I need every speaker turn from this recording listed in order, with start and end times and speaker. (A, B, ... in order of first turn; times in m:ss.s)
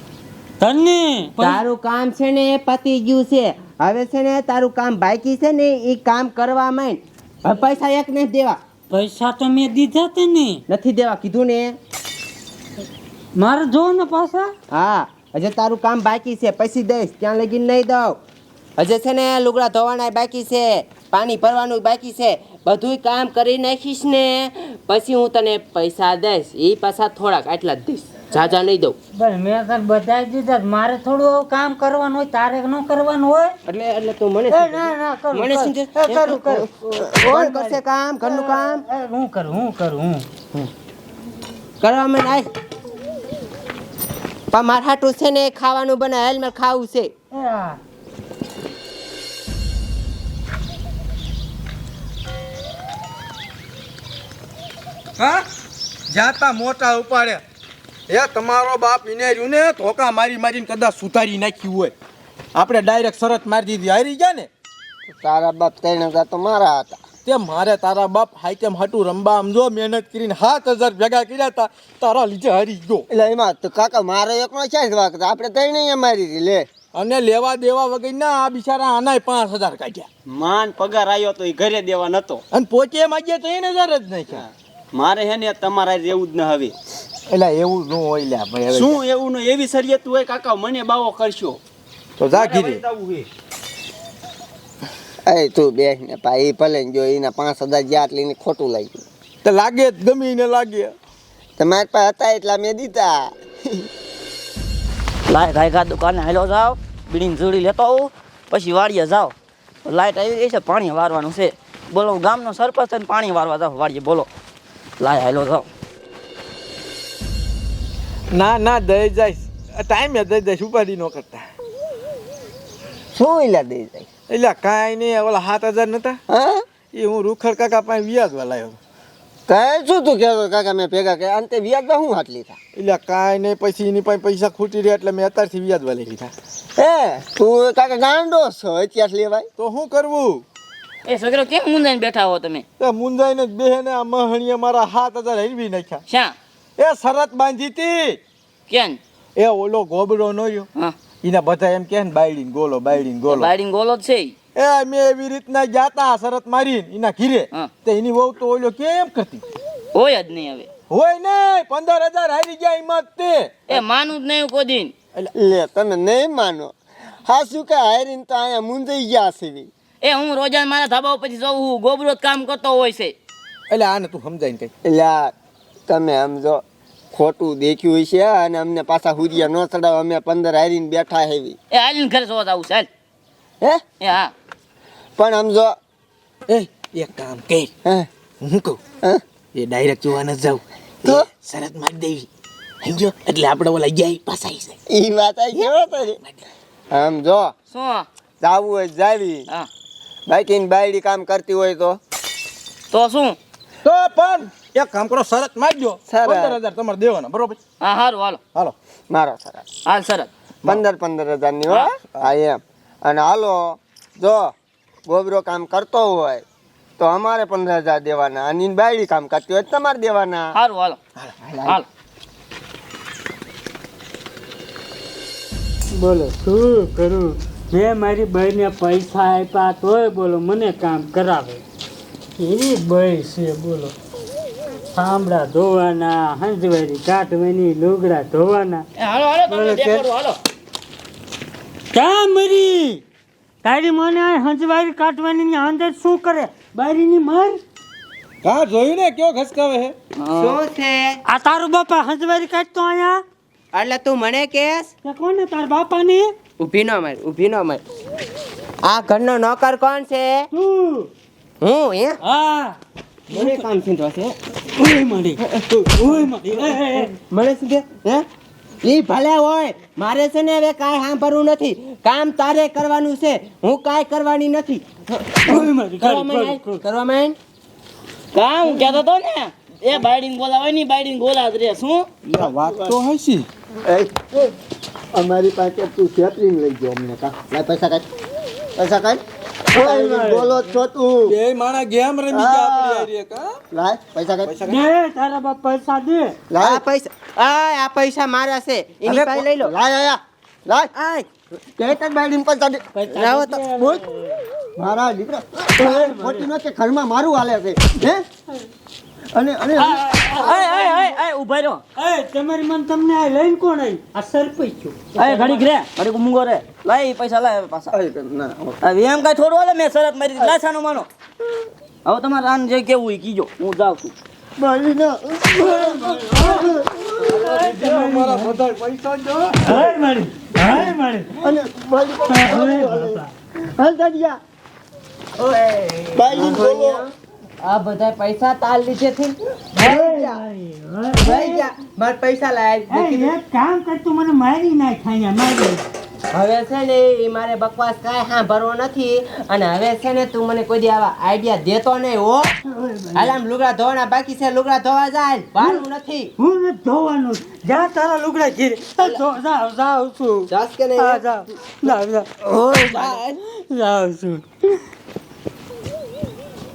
0:00.6-0:01.6 A
0:01.4-0:08.6 B
0:08.9-0:10.6 A
0:10.7-0:11.8 B
0:13.4-0:14.5 A
0:14.7-0:18.2 B
0:18.8-0:29.0 B
0:29.2-0:33.6 A
0:33.6-0:38.8 B
0:34.5-0:40.6 A
0:41.8-0:42.5 B
0:44.5-0:47.1 B
0:47.3-0:47.8 A
0:55.2-0:55.4 C
0:56.1-0:57.4 C
0:58.1-1:01.9 C
1:02.5-1:04.5 C
1:05.1-1:07.0 D
1:07.2-1:13.0 C
1:13.1-1:16.6 D
1:16.9-1:20.1 C
1:20.3-1:22.4 E
1:22.5-1:24.4 C
1:24.9-1:26.7 E
1:27.3-1:29.0 C
1:28.8-1:31.6 E
1:32.2-1:32.8 C
1:35.2-1:39.0 D
1:39.4-1:40.9 C
1:41.6-1:43.9 D
1:45.3-1:49.3 F
1:49.8-1:54.3 F
1:55.0-1:55.7 F
1:58.3-2:01.5 C
2:03.1-2:04.1 D
2:04.3-2:06.2 C
2:06.3-2:06.6 D
2:06.9-2:08.8 C
2:09.5-2:12.6 D
2:12.8-2:16.3 C
2:16.8-2:19.5 D
2:19.6-2:20.4 C
2:21.0-2:22.6 F
2:22.8-2:26.0 C
2:26.1-2:26.4 F
2:26.8-2:28.2 C
2:28.7-2:29.0 F
2:29.4-2:30.7 C
2:31.2-2:33.5 C
2:33.2-2:34.3 F
2:34.5-2:39.4 C
2:39.9-2:40.7 F
2:40.9-2:43.8 C
2:43.7-2:44.9 F
2:45.3-2:46.7 D
2:47.2-2:49.7 D
2:50.0-2:53.1 F
2:53.7-2:54.7 C
2:54.8-2:55.3 D
2:55.9-3:01.6 D
3:01.7-3:02.9 F
3:04.0-3:04.3 F
3:05.2-3:05.8 D
3:06.5-3:07.7 C
3:08.4-3:08.8 C
3:09.5-3:12.3 C
3:12.8-3:14.8 C
3:14.9-3:16.2 D
3:16.9-3:17.5 D
3:17.7-3:18.0 F
3:18.4-3:19.4 D
3:20.3-3:22.0 D
3:22.9-3:23.4 F
3:23.8-3:27.6 C
3:26.1-3:26.6 D
3:27.8-3:28.4 F
3:29.1-3:29.6 D
3:29.8-3:30.3 F
3:30.6-3:34.5 D
3:35.1-3:36.4 D
3:37.0-3:40.5 D
3:40.5-3:41.0 F
3:41.4-3:41.8 D
3:46.0-3:51.6 A
3:52.4-3:53.9 A
3:54.9-3:58.9 A
3:59.0-4:00.4 F
3:59.4-4:00.1 A
4:01.9-4:03.0 A
4:03.6-4:07.6 A
4:08.4-4:09.9 C
4:10.2-4:10.6 F
4:10.4-4:11.2 B
4:11.3-4:13.2 A
4:13.7-4:14.9 B
4:15.0-4:16.3 A
4:16.6-4:17.8 B
4:18.8-4:20.5 B
4:20.5-4:21.1 A
4:21.6-4:22.2 B
4:22.2-4:22.8 A
4:23.3-4:24.4 B
4:23.3-4:23.6 A
4:24.6-4:27.1 A
4:25.4-4:26.2 B
4:27.0-4:28.2 B
4:28.8-4:37.4 B
4:35.4-4:36.8 A
4:38.3-4:42.1 F
4:42.2-4:43.5 C
4:42.4-4:43.0 D
4:43.8-4:44.5 D
4:45.1-4:48.0 D
4:48.8-4:51.4 D
4:49.8-4:50.6 A
4:51.3-4:53.6 C
4:52.3-4:53.1 D
4:53.7-4:54.6 D
4:54.4-4:54.8 C
4:54.6-4:56.4 A
4:56.5-4:56.8 D
4:56.6-4:59.7 B
4:59.0-5:00.9 D
5:00.9-5:01.2 B
5:01.8-5:02.9 D
5:02.9-5:04.4 A
5:03.1-5:03.6 B
5:03.7-5:04.0 D
5:04.8-5:08.2 D
5:05.8-5:06.5 A
5:09.3-5:10.2 D
5:09.8-5:11.2 A
5:10.3-5:11.8 F
5:11.9-5:15.7 A
5:15.2-5:17.9 F
5:17.9-5:18.8 D
5:18.8-5:21.1 F
5:22.0-5:24.1 F
5:24.6-5:26.9 D
5:25.6-5:26.6 A
5:26.4-5:29.9 C
5:27.2-5:28.6 A
5:29.6-5:31.5 A
5:31.4-5:34.4 D
5:32.2-5:33.3 A
5:35.4-5:40.4 B
5:36.2-5:37.0 D
5:39.8-5:41.6 A
5:41.2-5:43.3 B
5:42.9-5:45.8 A
5:46.3-5:52.5 B
5:52.6-5:53.4 A
5:53.1-5:56.3 B
5:56.4-6:02.3 A
6:00.5-6:01.2 B
6:02.9-6:03.3 B
6:03.4-6:04.8 A